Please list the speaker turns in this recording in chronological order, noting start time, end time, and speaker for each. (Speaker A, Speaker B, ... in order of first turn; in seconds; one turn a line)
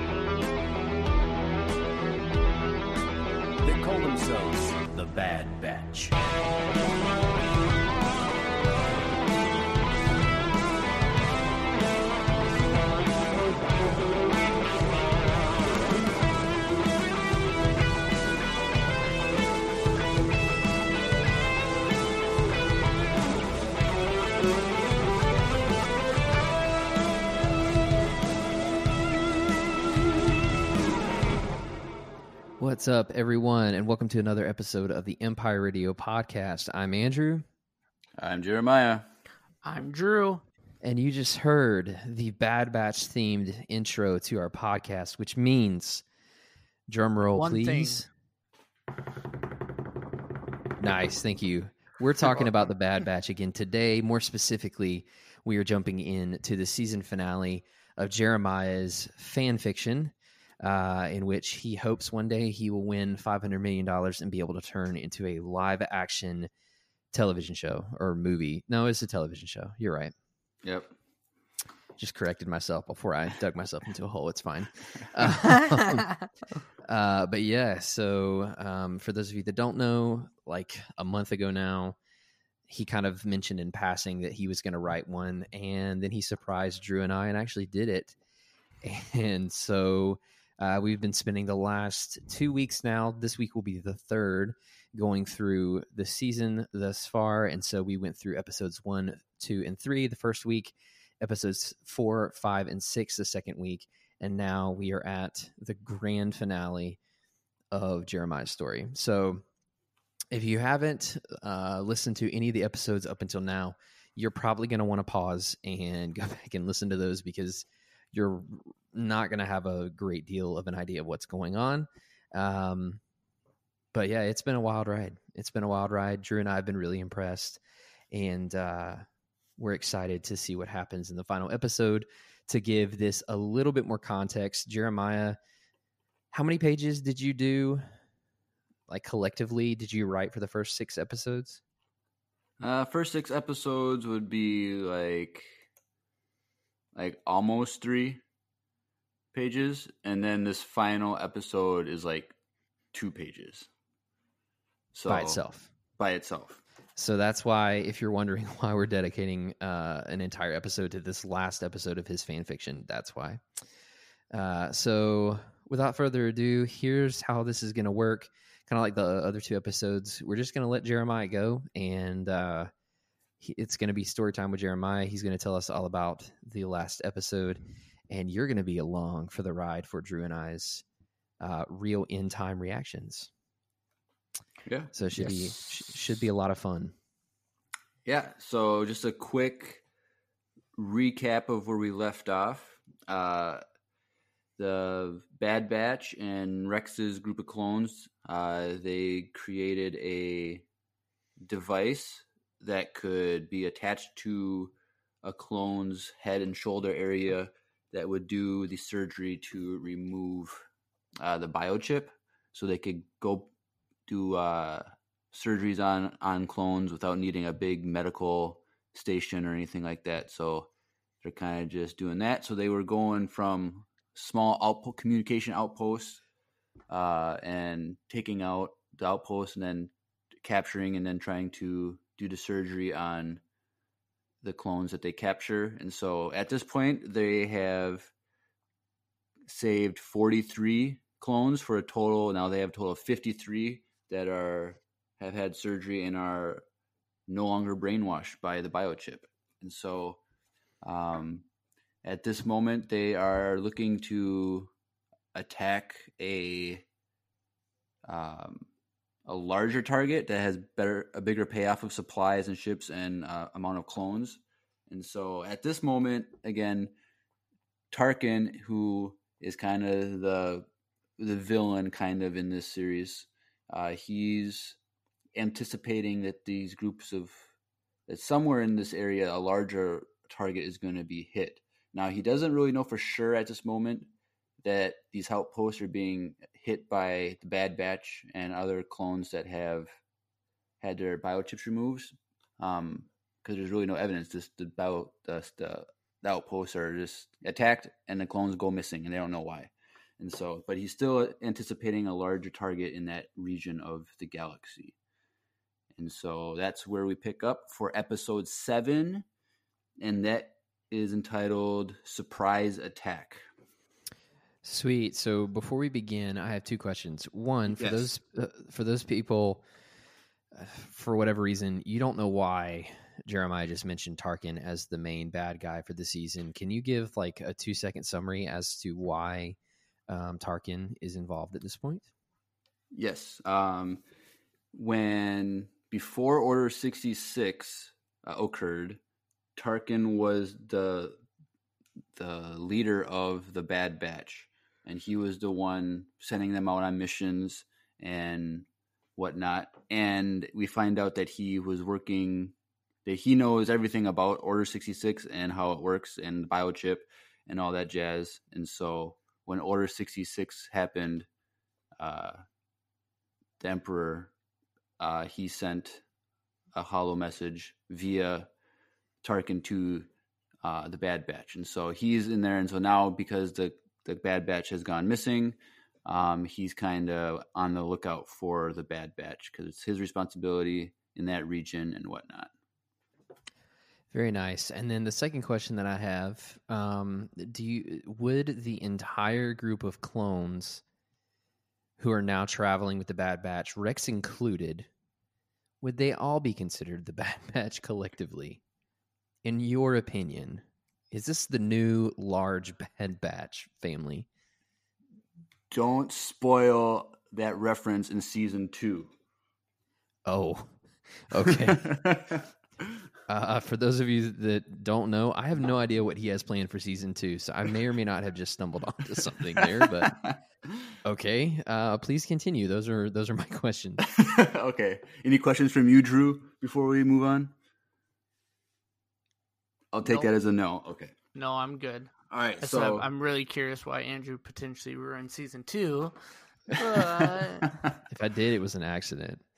Speaker A: 3.6-6.2
Speaker B: 32.6-37.5
Speaker C: 38.2-39.0
Speaker D: 39.6-40.4
Speaker B: 40.8-46.0
Speaker B: 46.9-48.1
Speaker D: 47.4-48.0
Speaker B: 50.8-66.5
Speaker B: 67.1-70.1
Speaker C: 70.6-70.9
Speaker B: 72.0-76.0
Speaker B: 76.9-82.0
Speaker B: 82.7-88.2
Speaker B: 88.8-107.0
Speaker B: 107.7-109.4
Speaker B: 110.3-123.0
Speaker B: 123.9-127.6
Speaker B: 128.1-129.1
Speaker B: 129.6-135.4
Speaker B: 136.3-137.8
Speaker B: 138.9-141.6
Speaker C: 142.6-145.5
Speaker C: 146.9-148.2
Speaker C: 149.3-152.3
Speaker C: 152.9-153.7
Speaker C: 154.9-155.4
Speaker B: 155.1-155.7
Speaker C: 156.0-156.6
Speaker B: 157.0-163.4
Speaker B: 164.3-172.7
Speaker B: 173.4-180.8
Speaker B: 181.4-183.3
Speaker C: 184.7-185.5
Speaker B: 184.9-186.9
Speaker C: 188.1-189.8
Speaker C: 190.8-193.6
Speaker C: 194.6-200.7
Speaker C: 201.4-210.7
Speaker C: 211.2-213.5
Speaker C: 214.1-220.7
Speaker C: 221.2-226.2
Speaker C: 226.9-229.9
Speaker C: 230.4-233.4
Speaker C: 234.4-238.1
Speaker C: 239.5-246.6
Speaker C: 247.3-250.2
Speaker C: 250.8-251.4
Speaker C: 252.0-254.7
Speaker C: 255.3-256.9
Speaker C: 258.1-258.7
Speaker C: 259.3-266.9
Speaker C: 267.9-270.7
Speaker C: 271.2-274.8
Speaker C: 275.4-277.4
Speaker C: 278.1-284.1
Speaker C: 284.6-290.0
Speaker C: 290.8-305.0
Speaker C: 305.9-309.2
Speaker C: 310.0-313.4
Speaker B: 314.6-319.6
Speaker C: 317.7-318.1
Speaker B: 320.5-329.6
Speaker B: 330.1-332.1
Speaker C: 332.9-334.0
Speaker C: 334.7-339.0
Speaker C: 339.6-341.2
Speaker C: 342.1-352.5
Speaker C: 353.1-361.3
Speaker C: 362.0-362.4
Speaker C: 363.6-364.3
Speaker C: 365.0-366.0
Speaker C: 366.7-368.5
Speaker C: 369.2-370.1
Speaker C: 370.6-382.5
Speaker B: 384.1-390.8
Speaker B: 392.0-394.9
Speaker B: 395.8-398.6
Speaker B: 399.4-404.3
Speaker C: 405.7-409.1
Speaker B: 410.3-412.0
Speaker C: 411.4-412.4
Speaker B: 413.3-420.2
Speaker C: 419.6-420.4
Speaker B: 421.0-424.1
Speaker C: 424.1-427.5
Speaker C: 429.9-431.1
Speaker D: 431.4-436.1
Speaker C: 432.3-433.1
Speaker D: 436.7-437.8
Speaker C: 436.9-437.9
Speaker B: 438.1-439.4